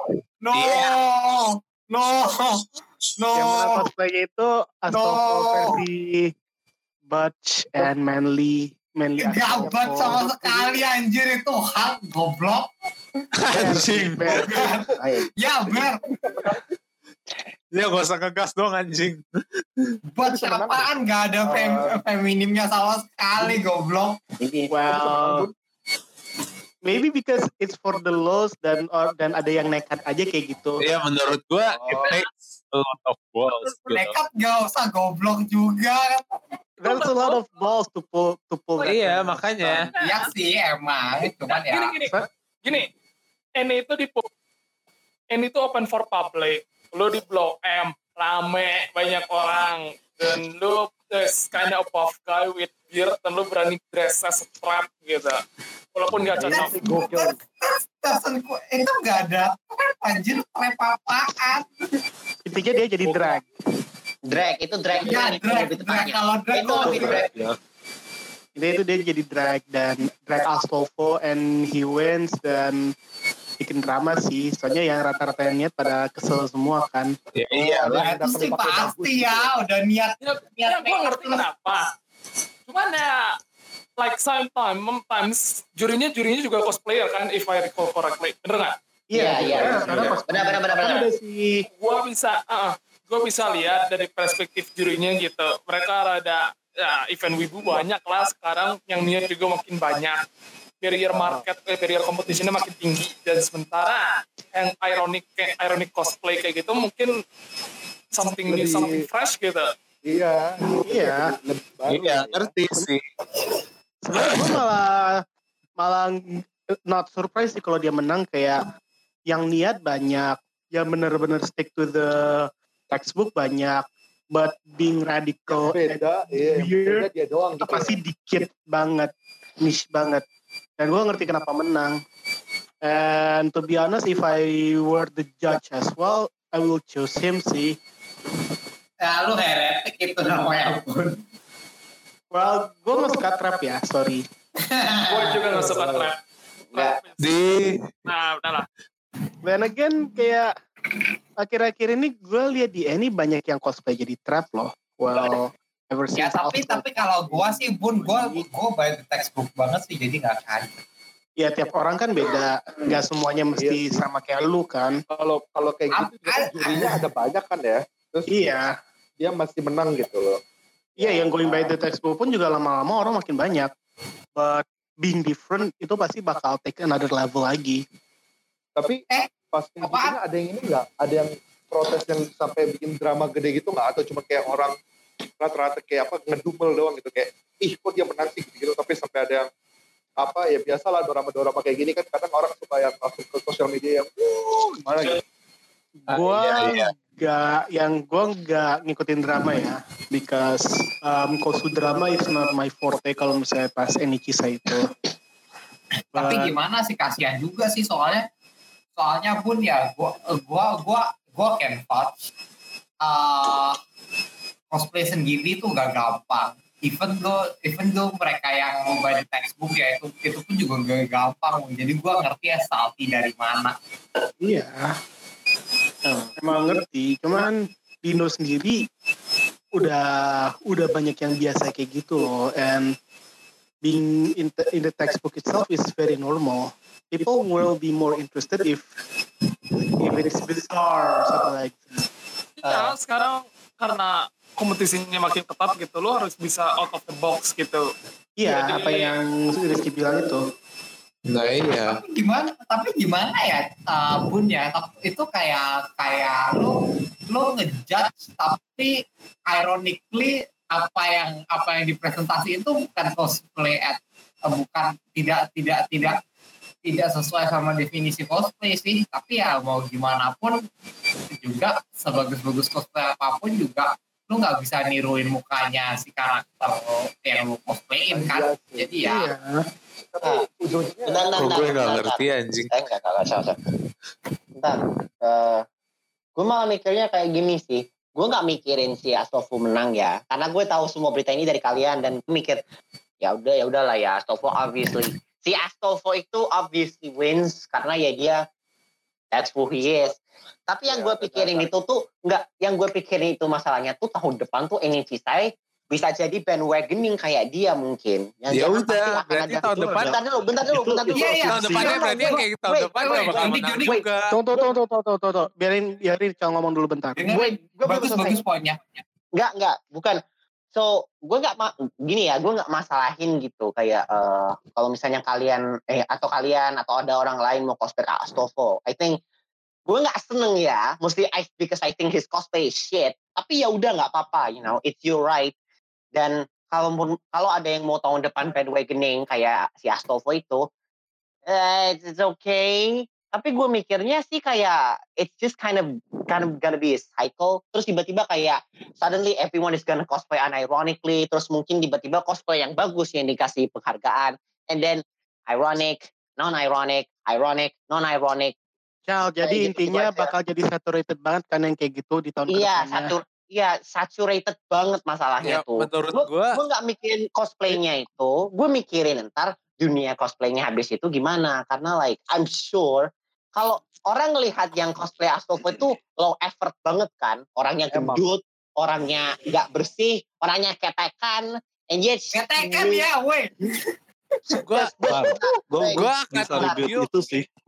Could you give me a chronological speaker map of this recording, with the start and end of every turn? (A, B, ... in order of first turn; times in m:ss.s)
0:00.4-0:02.6 A
0:00.5-0:00.9 B
0:03.2-0:03.8 A
0:03.3-0:06.3 C
0:04.9-0:05.8 A
0:07.1-0:10.3 C
0:09.2-0:12.7 A
0:09.5-0:10.8 D
0:13.3-0:14.4 B
0:13.5-0:14.7 C
0:14.3-0:16.0 A
0:15.0-0:16.6 D
0:17.7-0:20.0 B
0:20.1-0:24.2 A
0:20.2-0:20.9 D
0:21.4-0:21.9 D
0:24.4-0:24.7 E
0:24.7-0:25.5 C
0:26.8-0:30.8 C
0:30.8-0:34.2 B
0:33.6-0:36.4 A
0:36.8-0:39.9 C
0:36.8-0:37.4 F
0:38.8-0:39.9 B
0:39.9-0:40.3 F
0:40.0-0:42.0 A
0:41.5-0:42.9 F
0:43.6-0:44.2 F
0:45.3-0:55.4 F
0:55.9-0:56.7 F
0:56.4-0:57.3 D
0:56.4-0:57.3 A
0:58.0-1:01.6 A
1:02.4-1:03.4 C
1:04.2-1:07.2 E
1:04.9-1:07.3 A
1:06.8-1:07.5 G
1:08.6-1:12.8 C
1:13.6-1:17.1 C
1:17.3-1:18.1 B
1:17.6-1:19.5 D
1:17.7-1:21.4 A
1:20.2-1:21.9 F
1:22.7-1:23.4 F
1:24.0-1:28.7 F
1:29.1-1:31.6 C
1:29.1-1:31.1 E
1:29.4-1:30.2 G
1:31.8-1:40.2 F
1:40.8-1:47.1 F
1:41.1-1:41.4 D
1:48.1-1:49.7 F
1:48.4-1:49.0 D
1:50.1-1:52.5 D
1:50.9-1:51.2 C
1:51.9-1:53.0 B
1:54.1-1:55.2 C
1:54.2-1:54.5 B
1:55.8-1:58.6 C
1:59.3-2:07.0 C
2:05.5-2:08.0 D
2:07.6-2:10.2 C
2:10.8-2:11.9 C
2:12.8-2:17.8 C
2:19.0-2:21.2 A
2:22.3-2:24.2 C
2:24.8-2:25.6 A
2:25.1-2:26.2 F
2:25.6-2:26.1 D
2:26.7-2:27.3 F
2:27.2-2:27.9 B
2:28.0-2:28.7 F
2:29.4-2:30.5 C
2:31.4-2:38.4 C
2:36.2-2:40.7 A
2:41.4-2:45.0 C
2:43.5-2:44.0 D
2:45.1-2:48.3 D
2:45.9-2:47.0 A
2:48.3-2:48.7 C
2:49.2-2:50.4 D
2:51.0-2:51.7 D
2:51.0-2:53.7 C
2:54.4-2:57.8 C
2:58.8-3:04.7 D
2:59.1-3:00.2 A
3:05.4-3:09.5 D
3:10.2-3:14.1 D
3:16.0-3:24.9 C
3:16.1-3:16.9 B
3:26.1-3:26.5 C
3:26.1-3:28.2 A
3:29.0-3:32.1 A
3:33.0-3:33.8 A
3:34.7-3:43.7 A
3:44.4-3:44.9 C
3:46.0-3:48.8 C
3:49.8-3:52.9 C
3:53.8-3:58.8 C
4:00.0-4:01.9 C
4:02.6-4:07.8 F
4:08.4-4:10.4 C
4:08.4-4:09.1 F
4:11.2-4:12.0 B
4:11.8-4:18.9 A
4:19.5-4:26.2 A
4:26.8-4:30.5 A
4:31.4-4:39.3 A
4:38.1-4:39.1 D
4:39.0-4:39.6 C
4:40.2-4:41.5 D
4:41.1-4:43.6 E
4:41.3-4:42.7 B
4:44.6-4:45.6 E
4:46.4-4:52.6 E
4:53.2-4:58.4 E
4:59.3-5:00.2 E
5:00.7-5:14.0 E
5:00.9-5:01.7 D
5:08.5-5:10.1 B
5:09.7-5:11.9 G
5:11.1-5:14.0 A
5:11.4-5:14.3 B
5:14.3-5:18.4 C
5:17.2-5:19.0 A
5:19.3-5:20.2 E
5:20.7-5:29.2 E
5:29.9-5:35.5 E
5:36.1-5:40.6 E
5:41.5-5:58.5 E
5:59.1-6:03.1 C
5:59.4-6:00.3 E
6:02.5-6:23.1 E
6:05.4-6:06.6 B
6:17.9-6:18.2 D
6:22.3-6:23.5 A
6:24.5-6:26.8 E
6:24.6-6:25.2 B
6:25.1-6:27.4 G
6:25.9-6:27.0 B